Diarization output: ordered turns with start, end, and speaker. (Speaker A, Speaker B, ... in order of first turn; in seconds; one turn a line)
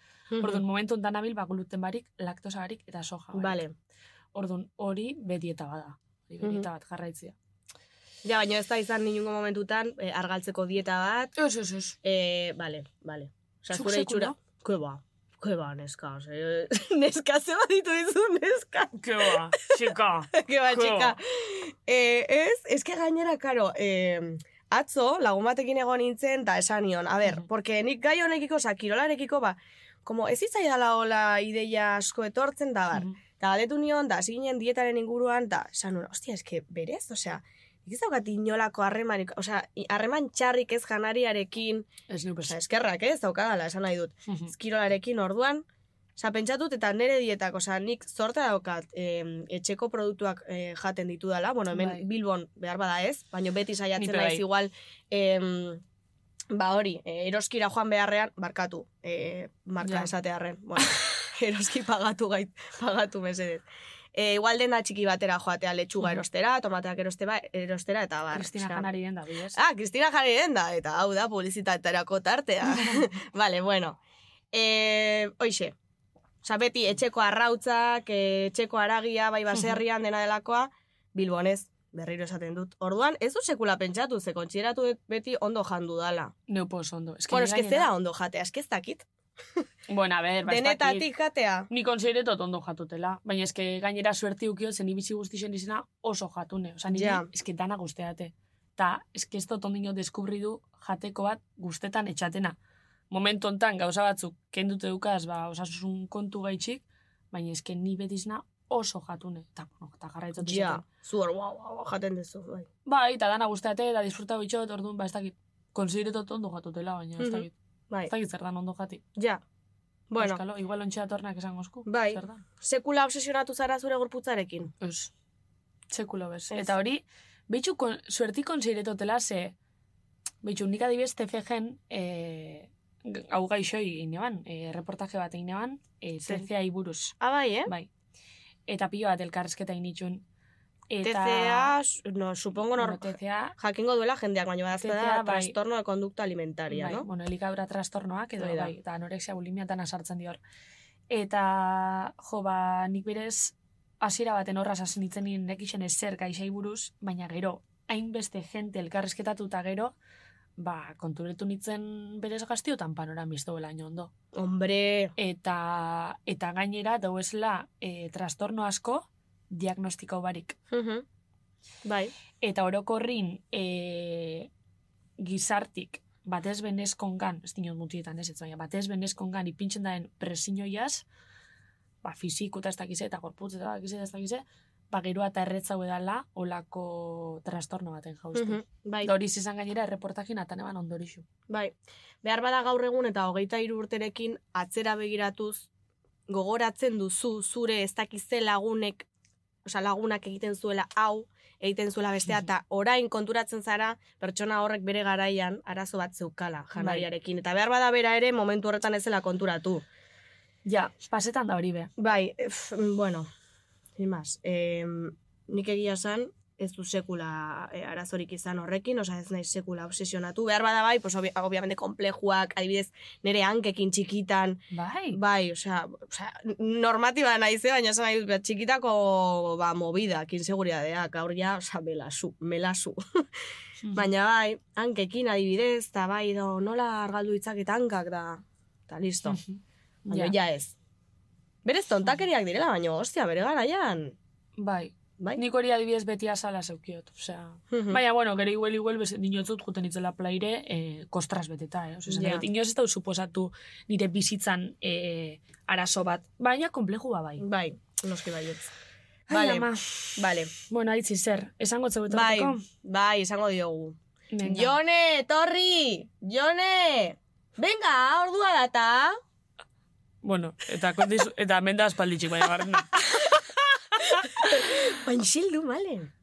Speaker A: 0.3-0.6
Speaker B: 0.4-3.6
Speaker A: 3.3-3.7
Speaker B: 4.3-7.3
Speaker A: 6.4-6.7
Speaker A: 8.2-11.3
Speaker B: 11.4-11.9
Speaker A: 12.0-19.8
Speaker B: 13.7-14.3
Speaker B: 18.9-21.1
Speaker A: 20.3-41.9
Speaker B: 42.1-42.6
Speaker A: 42.5-45.6
Speaker B: 44.3-44.5
Speaker A: 46.2-55.8
Speaker B: 51.7-52.0
Speaker B: 54.0-54.4
Speaker A: 56.5-68.9
Speaker B: 59.8-60.1
Speaker B: 68.3-69.6
Speaker A: 69.5-74.0
Speaker A: 74.5-75.7
Speaker A: 76.4-86.3
Speaker B: 79.5-79.8
Speaker B: 86.5-87.9
Speaker A: 87.3-89.0
Speaker B: 89.9-91.1
Speaker A: 90.4-91.7
Speaker B: 91.7-102.5
Speaker A: 96.9-97.3
Speaker B: 103.1-110.8
Speaker A: 110.4-112.7
Speaker B: 112.8-117.5
Speaker A: 117.2-118.1
Speaker B: 118.1-119.0
Speaker A: 119.2-119.4
Speaker A: 120.1-120.4
Speaker B: 120.2-122.4
Speaker A: 121.8-124.7
Speaker B: 124.8-125.1
Speaker B: 125.9-129.5
Speaker B: 130.4-137.1
Speaker A: 137.2-137.7
Speaker B: 138.7-140.2
Speaker B: 140.9-141.8
Speaker A: 141.0-147.1
Speaker B: 142.8-143.6
Speaker B: 144.8-145.6
Speaker B: 146.7-150.4
Speaker A: 148.4-148.7
Speaker B: 151.1-159.9
Speaker B: 160.6-164.1
Speaker A: 164.3-165.1
Speaker B: 165.2-170.6
Speaker A: 170.7-171.0
Speaker A: 171.8-172.1
Speaker B: 172.4-174.5
Speaker B: 175.2-181.1
Speaker B: 182.0-191.2
Speaker A: 188.3-189.1
Speaker A: 191.5-195.7
Speaker A: 196.3-199.1
Speaker A: 199.6-209.8
Speaker B: 206.8-207.1
Speaker B: 210.6-211.9
Speaker A: 212.0-213.3
Speaker A: 214.0-233.2
Speaker B: 224.7-225.2
Speaker B: 233.8-234.1
Speaker A: 233.9-239.4
Speaker B: 239.2-240.3
Speaker A: 240.1-240.7
Speaker A: 241.6-244.2
Speaker B: 244.6-257.4
Speaker A: 247.7-248.0
Speaker A: 252.1-252.4
Speaker A: 257.4-258.7
Speaker B: 259.3-262.6
Speaker A: 259.3-260.5
Speaker A: 262.1-269.2
Speaker B: 264.3-264.8
Speaker B: 270.2-273.4
Speaker B: 274.0-274.4
Speaker A: 274.2-276.1